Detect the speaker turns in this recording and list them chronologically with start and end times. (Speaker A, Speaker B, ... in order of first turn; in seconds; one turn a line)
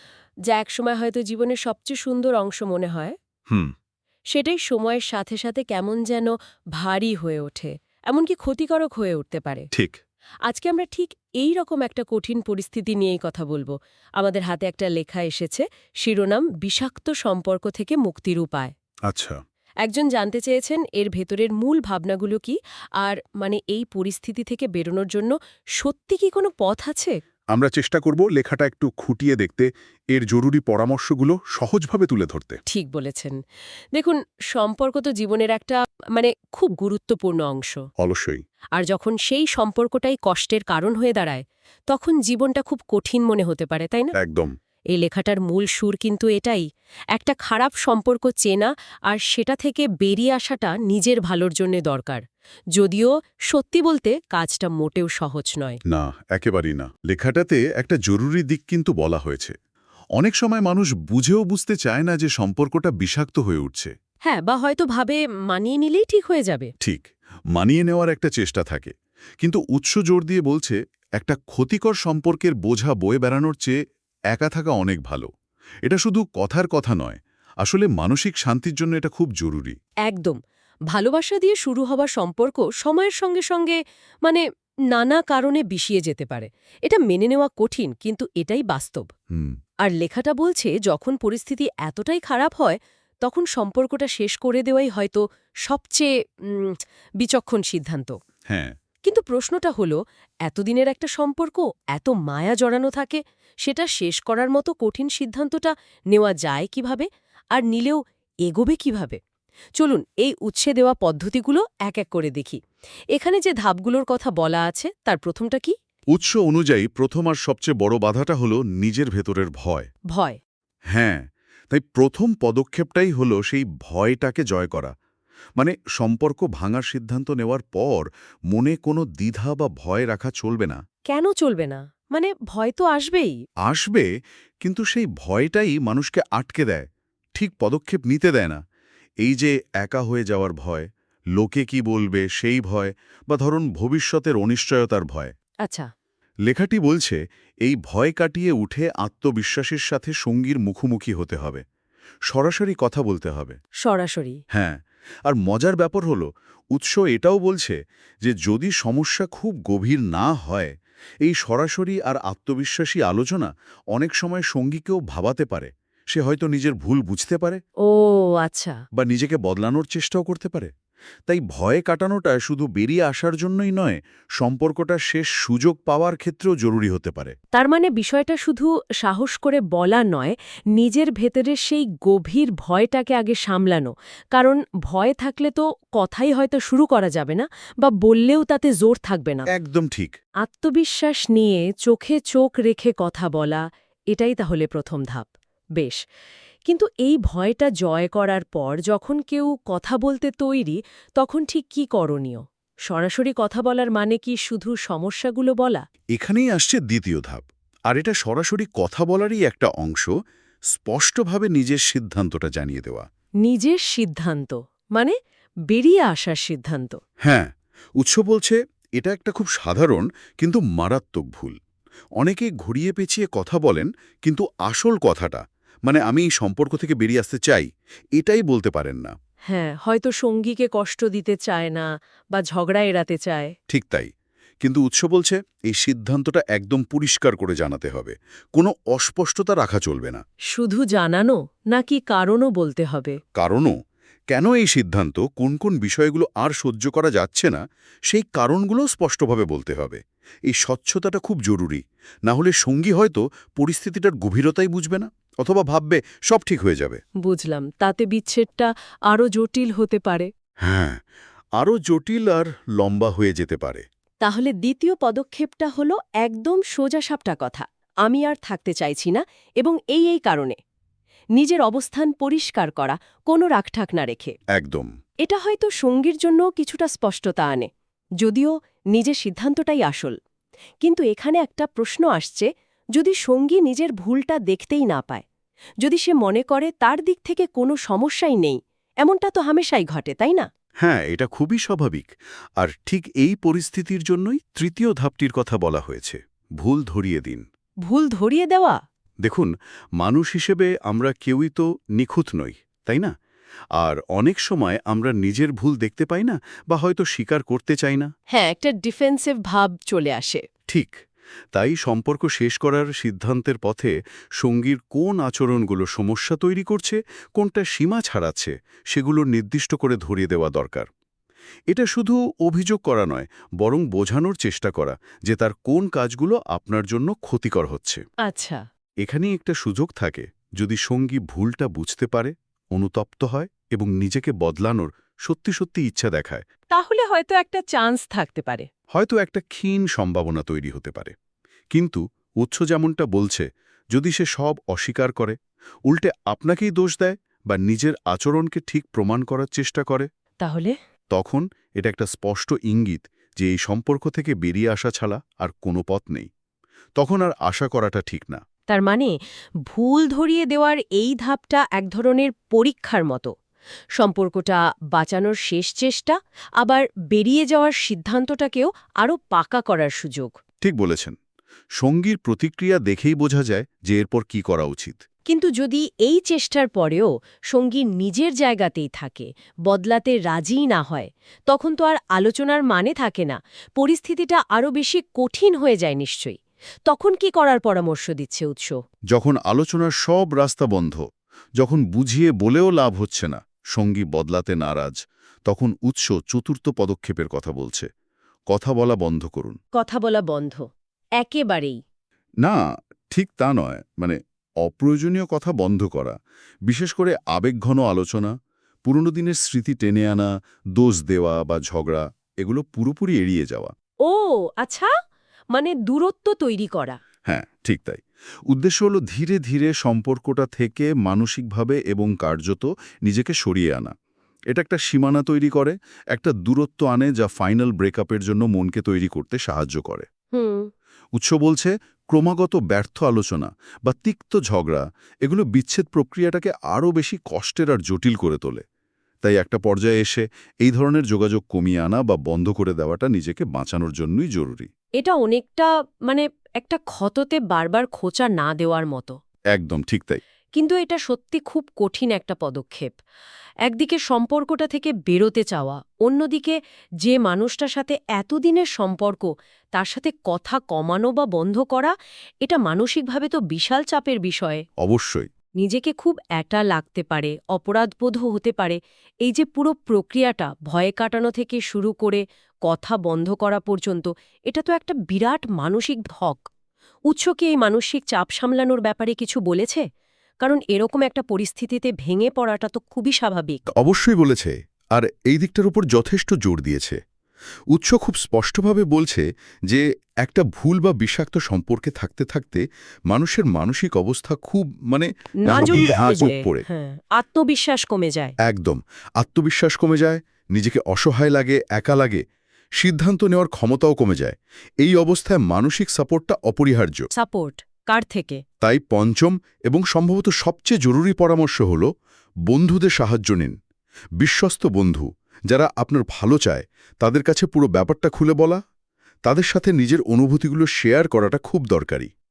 Speaker A: 0.5-3.1
Speaker A: 4.3-9.7
Speaker B: 9.7-10.0
Speaker A: 10.4-18.7
Speaker B: 19.1-19.4
Speaker A: 19.8-27.1
Speaker B: 27.5-32.6
Speaker A: 32.7-33.4
Speaker A: 33.9-37.8
Speaker B: 38.0-38.4
Speaker A: 38.8-44.1
Speaker B: 44.1-44.5
Speaker A: 44.9-52.2
Speaker A: 52.7-55.8
Speaker B: 55.9-59.5
Speaker B: 60.2-63.9
Speaker A: 64.3-66.7
Speaker B: 66.8-73.7
Speaker B: 74.3-75.3
Speaker B: 75.8-79.8
Speaker A: 80.0-80.4
Speaker A: 80.9-89.1
Speaker A: 89.8-98.1
Speaker B: 98.5-98.7
Speaker A: 99.0-109.2
Speaker A: 109.8-112.6
Speaker A: 113.1-115.7
Speaker B: 116.1-119.9
Speaker A: 120.1-120.4
Speaker B: 120.9-124.9
Speaker B: 125.6-130.8
Speaker A: 131.1-133.3
Speaker B: 133.6-134.1
Speaker B: 134.6-138.6
Speaker B: 139.2-145.3
Speaker A: 145.6-145.9
Speaker B: 146.4-151.6
Speaker B: 152.3-153.6
Speaker A: 153.8-154.4
Speaker B: 154.5-167.6
Speaker A: 167.8-168.8
Speaker B: 168.9-170.7
Speaker B: 171.3-177.3
Speaker A: 177.5-189.5
Speaker B: 189.5-190.1
Speaker A: 190.4-196.0
Speaker A: 196.7-205.8
Speaker B: 206.1-210.1
Speaker B: 210.7-213.0
Speaker A: 213.4-215.2
Speaker A: 215.7-217.0
Speaker B: 217.2-221.6
Speaker B: 222.2-229.1
Speaker A: 229.5-233.5
Speaker B: 233.7-234.1
Speaker B: 234.6-240.2
Speaker A: 240.5-243.2
Speaker B: 243.3-243.7
Speaker B: 244.3-257.0
Speaker A: 257.2-260.3
Speaker B: 260.6-261.0
Speaker B: 261.6-263.8
Speaker A: 264.2-270.6
Speaker A: 271.4-274.4
Speaker B: 274.5-274.9
Speaker A: 275.2-277.7
Speaker A: 278.2-280.1
Speaker A: 280.8-285.2
Speaker A: 285.8-290.4
Speaker B: 290.8-297.4
Speaker A: 297.9-298.8
Speaker B: 299.2-303.1
Speaker B: 303.8-308.1
Speaker A: 308.3-310.4
Speaker B: 310.7-320.9
Speaker B: 321.7-328.0
Speaker A: 328.2-328.6
Speaker B: 329.0-336.4
Speaker A: 336.7-338.7
Speaker B: 338.9-341.1
Speaker B: 341.7-345.4
Speaker B: 345.9-350.1
Speaker A: 350.4-350.7
Speaker B: 351.1-356.3
Speaker B: 357.0-358.4
Speaker A: 358.7-359.1
Speaker A: 359.7-363.3
Speaker A: 363.9-370.3
Speaker B: 370.6-371.1
Speaker B: 371.8-375.0
Speaker A: 375.3-388.8
Speaker B: 389.1-391.0
Speaker B: 391.6-397.9
Speaker B: 398.5-399.6
Speaker A: 399.8-400.6
Speaker A: 401.2-401.8
Speaker B: 402.4-406.1
Speaker B: 406.7-408.3
Speaker B: 408.8-413.7
Speaker A: 414.0-414.9
Speaker A: 415.5-417.0
Speaker B: 417.2-423.9
Speaker B: 424.5-430.1
Speaker A: 430.3-430.7
Speaker B: 431.1-438.6
Speaker B: 439.2-444.7
Speaker A: 445.0-449.2
Speaker B: 449.5-450.2
Speaker A: 450.6-452.9
Speaker A: 453.6-464.6
Speaker B: 464.8-465.3
Speaker A: 465.6-476.5
Speaker A: 477.1-479.8
Speaker A: 480.4-483.6
Speaker B: 483.7-487.0
Speaker B: 487.7-496.6
Speaker A: 495.4-498.3
Speaker B: 498.4-502.2
Speaker B: 502.8-507.1
Speaker A: 507.1-508.4
Speaker B: 508.6-511.9
Speaker B: 512.5-513.5
Speaker B: 514.2-518.6
Speaker B: 519.2-522.1